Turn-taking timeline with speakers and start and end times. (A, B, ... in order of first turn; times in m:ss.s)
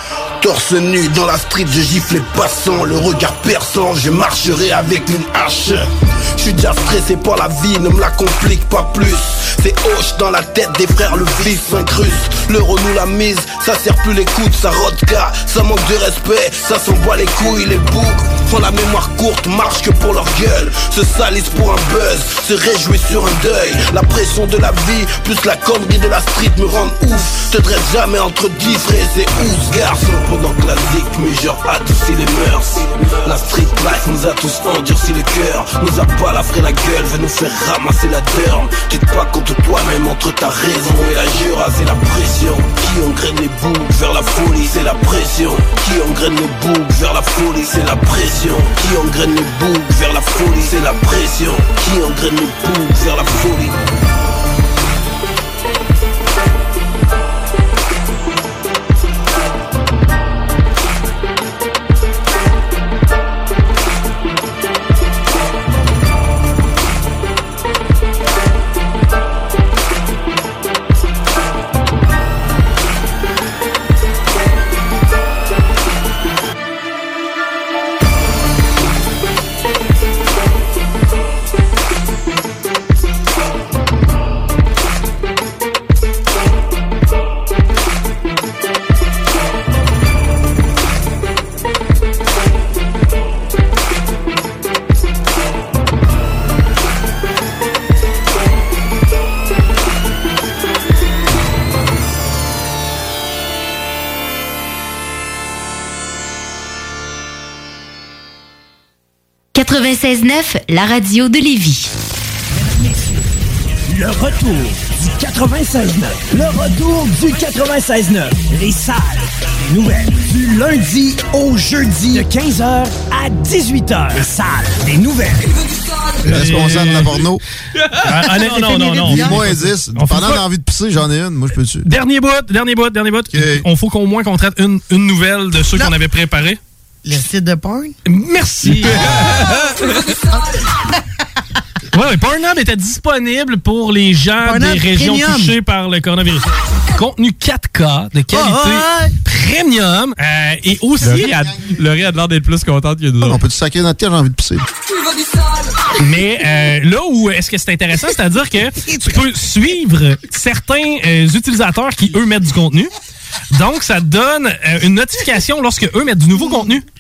0:00.4-0:53.8 A
1:53.9-1:59.0 B
1:59.7-2:05.4 B
2:06.2-2:07.4 C
2:06.3-2:07.1 D
2:08.0-2:10.4 D
2:09.0-2:11.9 C
2:11.8-2:16.6 D
2:13.3-2:13.6 C
2:17.0-2:18.0 E
2:18.1-2:19.9 D
2:21.9-2:33.4 D
2:24.4-2:25.5 E
2:33.2-2:34.7 C
2:36.0-2:42.9 D
2:43.5-2:46.8 D